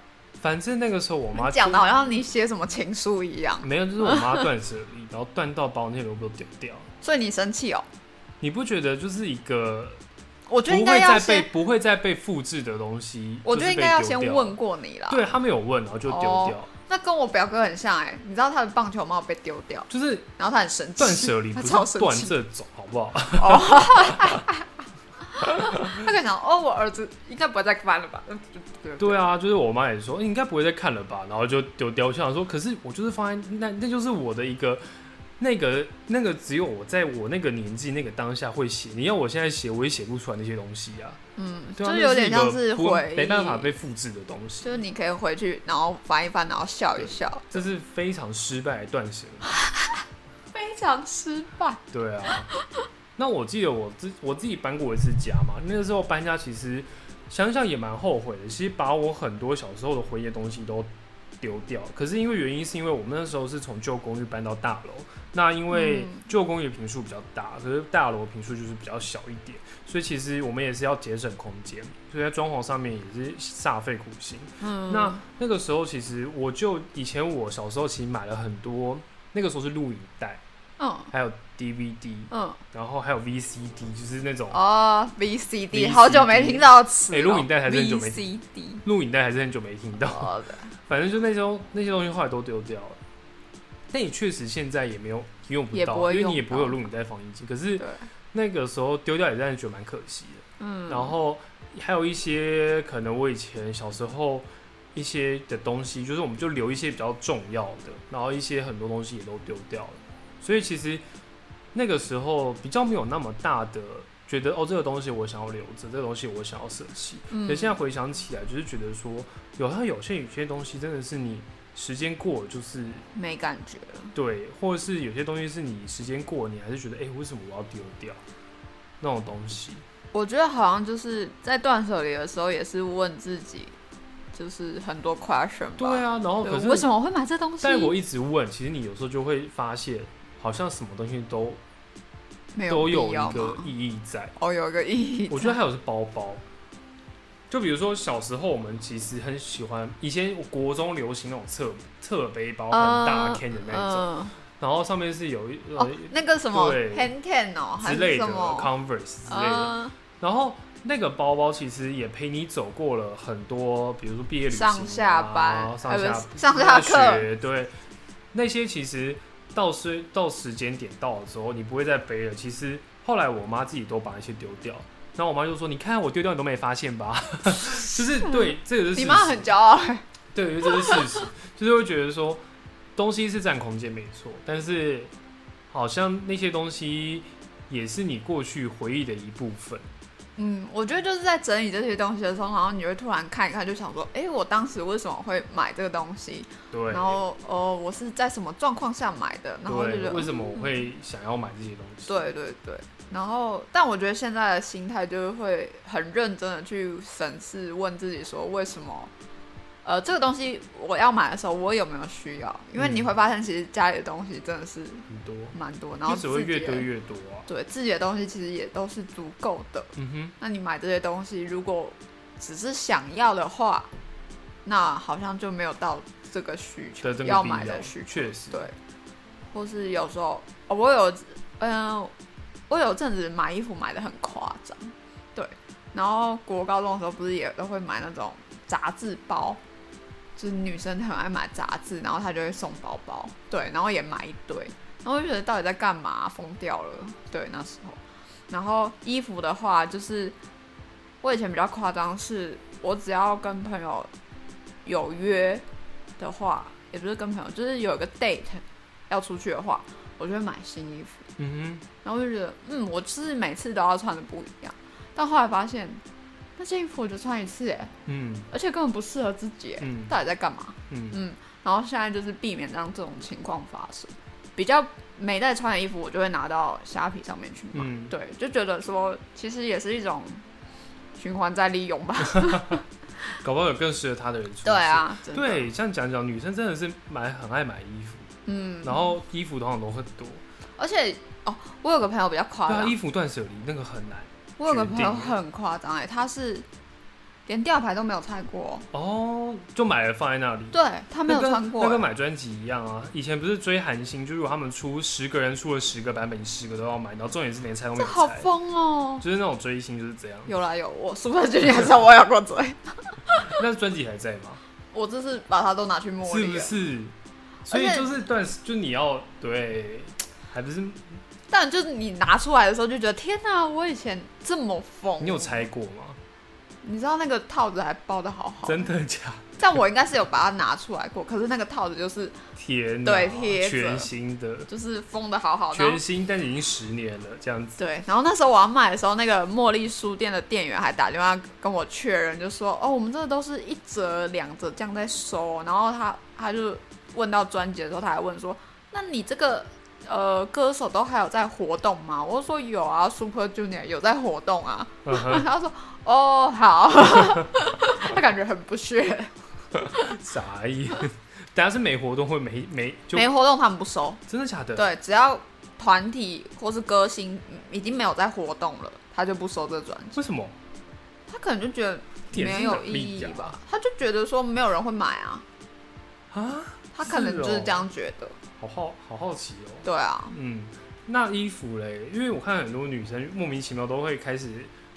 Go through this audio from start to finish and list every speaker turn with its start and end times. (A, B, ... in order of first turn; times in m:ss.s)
0:00.4-0:01.9 A
0:01.4-0:04.4 B
0:03.6-0:06.9 A
0:07.0-0:07.9 B
0:08.4-0:10.0 A
0:10.5-0:11.5 B
0:10.7-0:14.6 A
0:13.4-0:15.3 B
0:15.1-0:16.7 A
0:16.1-0:22.4 B
0:19.9-0:20.3 A
0:21.0-0:24.4 A
0:23.4-0:24.7 B
0:25.4-0:29.2 B
0:25.5-0:25.9 A
0:29.0-0:41.2 A
0:41.4-0:43.7 B
0:41.8-0:44.8 A
0:44.6-0:47.6 B
0:47.0-0:49.5 A
0:50.5-0:51.8 B
0:51.9-0:52.5 A
0:52.4-0:52.7 B
0:53.2-1:00.9 A
1:01.4-1:20.4 A
1:05.7-1:06.2 B
1:14.6-1:15.2 B
1:20.8-1:21.1 B
1:21.1-1:24.6 A
1:22.3-1:22.6 B
1:24.5-1:28.8 B
1:25.7-1:28.2 A
1:28.8-1:33.0 A
1:30.0-1:30.7 B
1:33.9-1:51.0 A
1:35.7-1:36.8 B
1:37.8-1:38.1 B
1:40.6-1:41.2 B
1:51.7-2:03.1 A
1:57.3-1:57.8 B
2:03.1-2:04.1 B
2:04.1-2:08.2 A
2:09.0-2:09.8 A
2:10.1-2:13.7 B
2:14.3-2:17.9 B
2:15.8-2:16.9 A
2:17.6-2:21.6 A
2:22.5-2:23.7 B
2:22.7-2:24.3 A
2:24.4-2:25.6 B
2:25.3-2:26.4 A
2:27.5-2:37.1 A
2:32.7-2:34.4 B
2:35.8-2:38.7 B
2:37.8-2:47.7 A
2:39.3-2:40.0 B
2:44.5-2:47.3 B
2:48.3-2:59.5 A
2:58.3-3:00.0 B
3:00.3-3:02.4 A
3:00.7-3:01.2 B
3:03.0-3:05.1 A
3:05.7-3:09.9 A
3:10.4-3:20.9 B
3:16.7-3:17.2 A
3:19.7-3:22.3 A
3:22.1-3:29.1 B
3:29.8-3:36.9 B
3:32.8-3:33.1 A
3:35.1-3:37.5 A
3:37.5-3:43.9 B
3:40.0-3:40.3 A
3:44.6-3:48.7 B
3:47.0-3:48.7 A
3:49.5-3:52.1 B
3:52.7-3:59.6 B
4:00.4-4:10.4 B
4:11.2-4:14.1 B
4:14.8-4:15.6 B
4:16.2-4:21.2 B
4:21.4-4:21.8 A
4:22.0-4:26.0 B
4:26.6-4:27.9 B
4:28.1-4:28.5 A
4:28.5-4:40.4 B
4:29.8-4:30.2 A
4:30.9-4:31.2 A
4:37.7-4:38.1 A
4:41.2-4:42.8 B
4:43.4-4:48.3 A
4:44.6-4:45.7 B
4:48.5-4:49.1 B
4:48.8-4:50.4 A
4:50.8-4:53.0 B
4:52.7-4:55.4 A
4:54.6-4:56.7 B
4:57.5-4:58.9 B
4:58.9-5:08.5 A
5:00.7-5:02.1 B
5:08.0-5:09.2 B
5:09.2-5:10.5 A
5:10.5-5:13.5 B
5:13.5-5:14.6 A
5:14.9-5:16.7 B
5:16.2-5:17.2 A
5:17.7-5:18.1 B
5:17.7-5:21.2 A
5:21.5-5:25.7 B
5:25.2-5:26.2 A
5:26.8-5:28.9 B
5:28.6-5:29.6 A
5:29.6-5:32.4 B
5:32.6-5:34.7 A
5:33.0-5:34.1 B
5:34.7-5:36.0 B
5:35.7-5:37.8 A
5:37.8-5:59.3 B
5:55.0-5:55.5 A
5:59.9-6:03.3 A
6:03.1-6:04.2 B
6:04.3-6:04.9 A
6:04.8-6:10.2 B
6:10.2-6:10.6 A
6:11.3-6:15.4 B
6:12.3-6:13.6 A
6:16.3-6:17.9 A
6:16.9-6:18.4 B
6:18.6-6:24.7 A
6:19.8-6:20.4 B